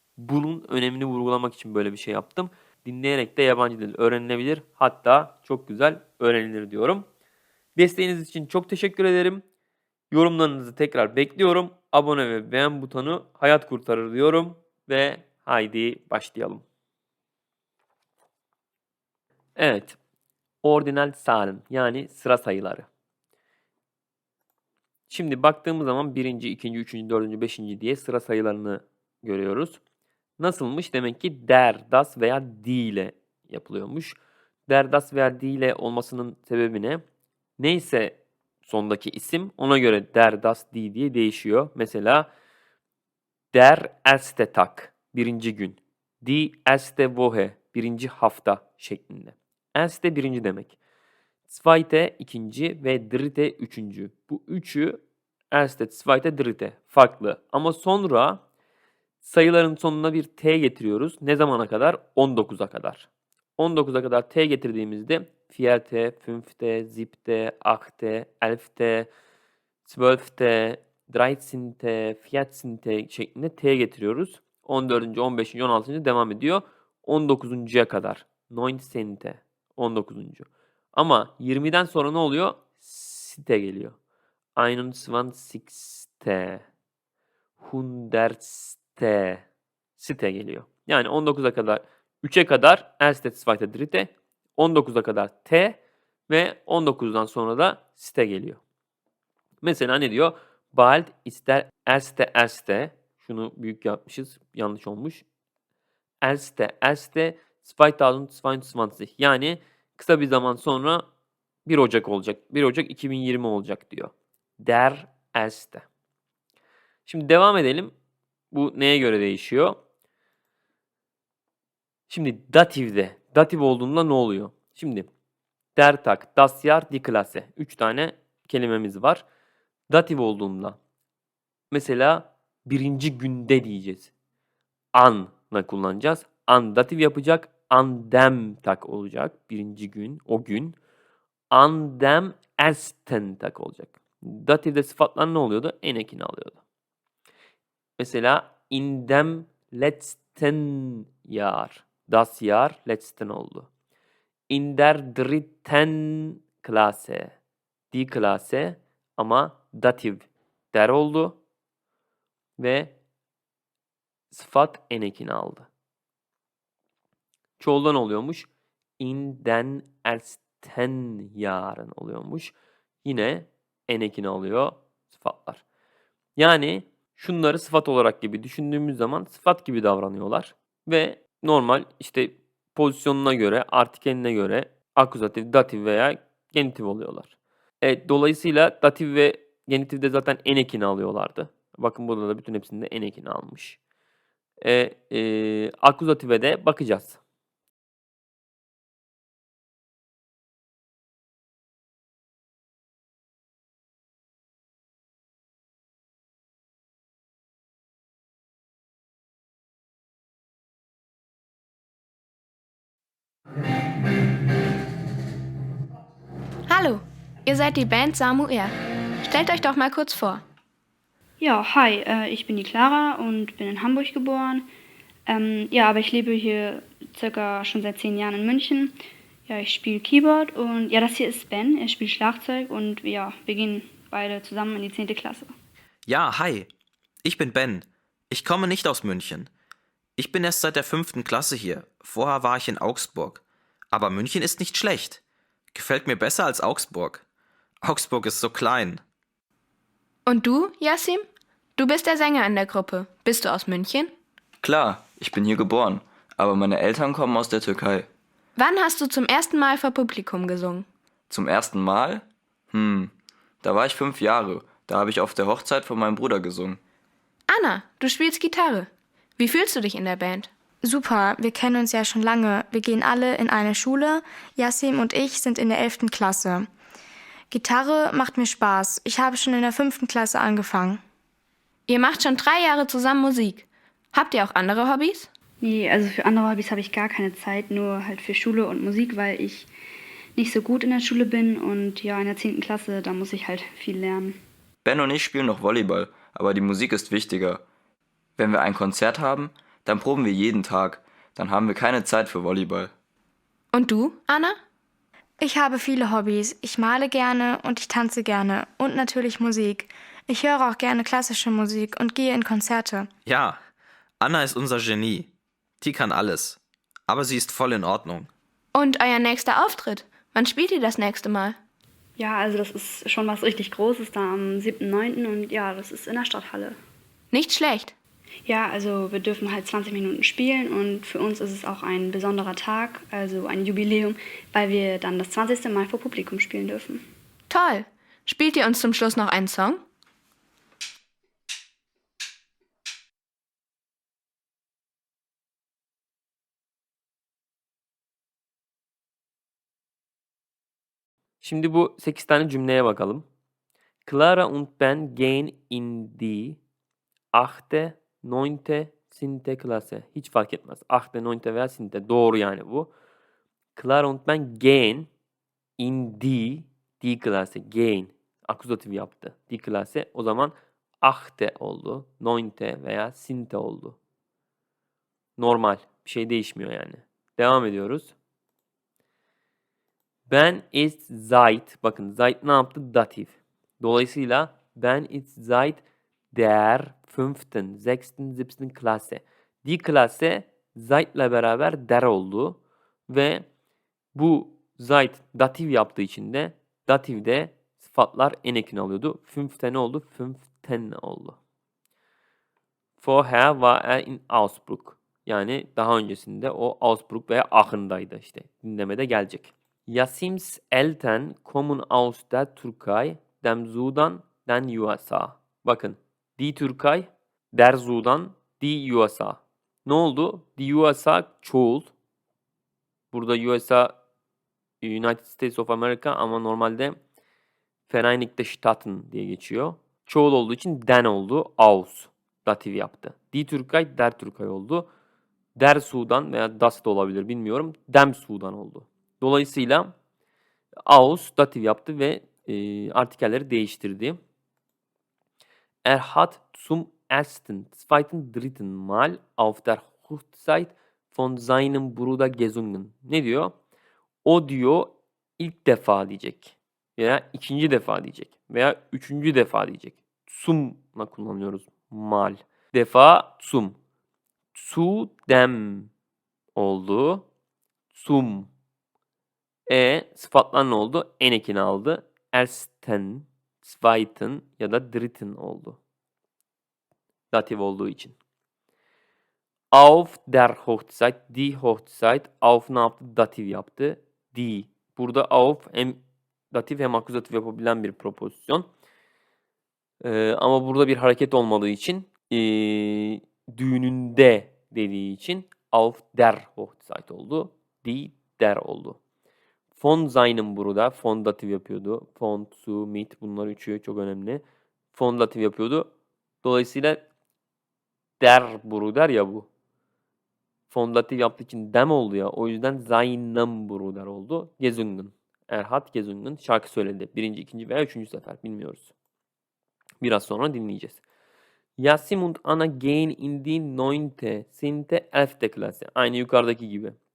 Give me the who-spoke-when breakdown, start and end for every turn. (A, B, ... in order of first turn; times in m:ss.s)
0:00.2-0:07.1 A
0:07.8-0:09.4 A
0:10.1-0:16.6 A
0:19.6-0:20.0 A
0:20.6-0:22.9 A
0:25.1-0:29.8 A
0:30.4-0:37.0 A
0:37.6-0:42.3 A
0:43.5-0:50.8 A
0:51.5-0:55.0 A
0:55.5-0:58.4 A
0:59.2-1:09.1 A
1:09.8-1:23.9 A
1:24.6-1:26.6 A
1:27.6-1:29.4 A
1:30.0-1:35.8 A
1:36.3-1:38.6 A
1:39.6-1:45.2 A
1:46.2-1:51.0 A
1:51.6-1:55.8 A
1:57.0-1:57.9 A
1:58.5-1:59.8 A
2:02.1-2:05.1 A
2:05.8-2:09.2 A
2:09.9-2:10.8 A
2:11.7-2:14.1 A
2:14.9-2:20.8 A
2:21.5-2:26.6 A
2:28.0-2:33.7 A
2:34.5-2:37.3 A
2:37.9-2:41.4 A
2:42.6-2:43.0 A
2:44.3-2:45.7 A
2:47.6-2:48.5 A
2:49.0-2:55.6 A
2:56.4-3:13.8 A
3:14.6-3:17.2 A
3:36.7-3:38.7 B
3:39.2-3:40.4 B
3:41.4-3:44.7 C
3:45.3-3:48.9 C
3:49.5-3:55.5 C
3:56.0-3:56.7 D
3:57.2-3:59.5 D
4:00.2-4:03.4 D
4:03.9-4:05.2 D
4:05.7-4:07.2 D
4:07.8-4:09.0 D
4:10.2-4:11.2 B
4:11.8-4:14.1 B
4:14.6-4:18.1 E
4:18.6-4:20.8 B
4:21.3-4:23.1 E
4:23.6-4:26.8 E
4:27.5-4:30.5 B
4:30.8-4:36.7 F
4:37.5-4:41.0 F
4:41.9-4:45.3 B
4:45.6-4:49.7 C
4:50.4-4:54.4 C
4:54.8-4:57.6 E
4:58.4-5:02.9 E
5:03.7-5:04.6 B
5:05.4-5:13.1 F
5:13.2-5:13.6 D
5:14.2-5:15.3 D
5:15.8-5:18.3 D
5:18.7-5:21.6 B
5:22.2-5:26.8 C
5:27.3-5:27.9 B
5:28.4-5:37.0 C
5:37.5-5:39.8 B
5:51.4-5:53.2 A
5:54.0-5:56.6 A
5:57.3-6:02.9 A
6:03.8-6:05.1 A
6:05.8-6:14.0 A
6:15.4-6:18.1 A
6:20.3-6:33.4 A
6:34.1-6:41.4 A
6:43.0-7:01.9 A
7:03.1-7:03.9 A
7:04.8-7:07.0 A
7:07.9-7:14.9 A
7:15.6-7:19.9 A
7:20.8-7:24.2 A
7:25.8-7:33.5 A
7:34.2-7:43.8 A
7:44.5-7:45.9 A
7:46.5-7:47.3 A
7:47.9-7:48.5 A
7:49.7-7:55.8 A
7:57.3-7:58.2 A
7:59.7-8:06.0 A
8:06.5-8:08.7 A
8:10.0-8:19.0 A
8:19.8-8:25.9 A
8:26.4-8:27.0 A
8:28.2-8:29.5 A
8:30.7-8:38.9 A
8:40.0-8:41.0 A
8:41.8-8:47.0 A